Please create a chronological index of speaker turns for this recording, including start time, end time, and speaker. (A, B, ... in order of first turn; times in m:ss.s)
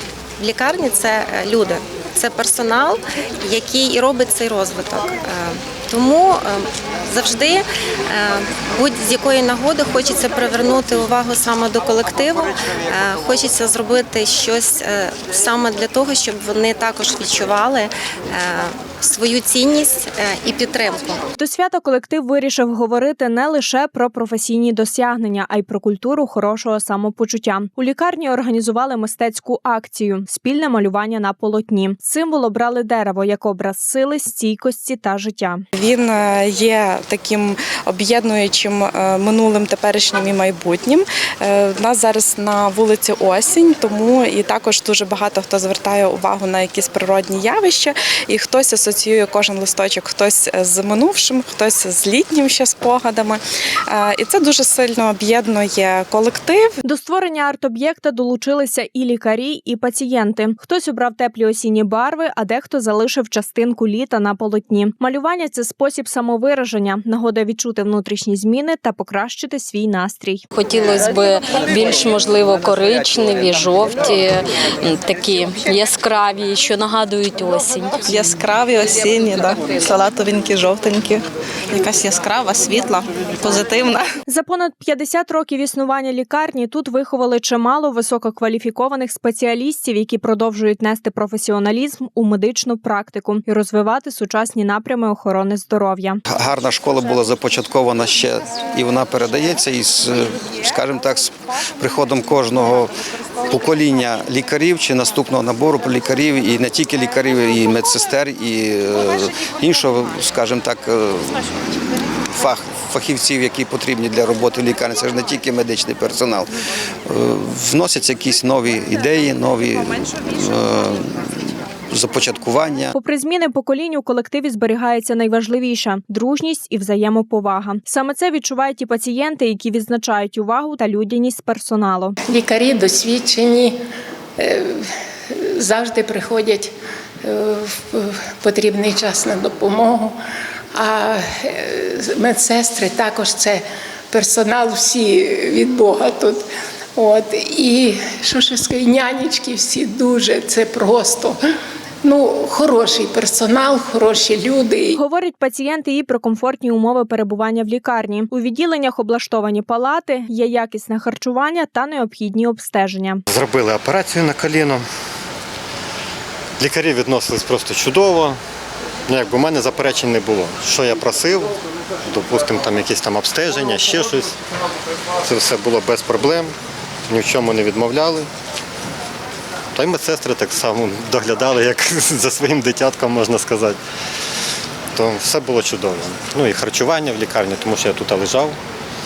0:00.4-0:21.2 A
0:21.4-0:35.6 B
0:35.8-0:56.7 C
0:56.8-1:10.5 B
1:10.5-1:18.1 D
1:18.2-1:24.0 E
1:18.9-1:19.2 C
1:24.3-1:36.2 B
1:36.3-1:42.9 F
1:43.5-1:56.5 F
1:57.1-2:02.9 F
2:02.9-2:12.2 B
2:12.3-2:13.8 G
2:14.4-2:16.7 G
2:17.2-2:20.2 G
2:20.8-2:26.4 G
2:27.0-2:31.4 G
2:32.0-2:35.0 G
2:35.0-2:43.2 B
2:43.3-2:44.8 H
2:46.6-2:48.4 H
2:49.1-2:51.5 H
2:52.1-2:54.4 H
2:55.2-2:56.5 H
2:57.1-2:58.3 H
2:59.8-3:03.8 H
3:05.0-3:08.6 H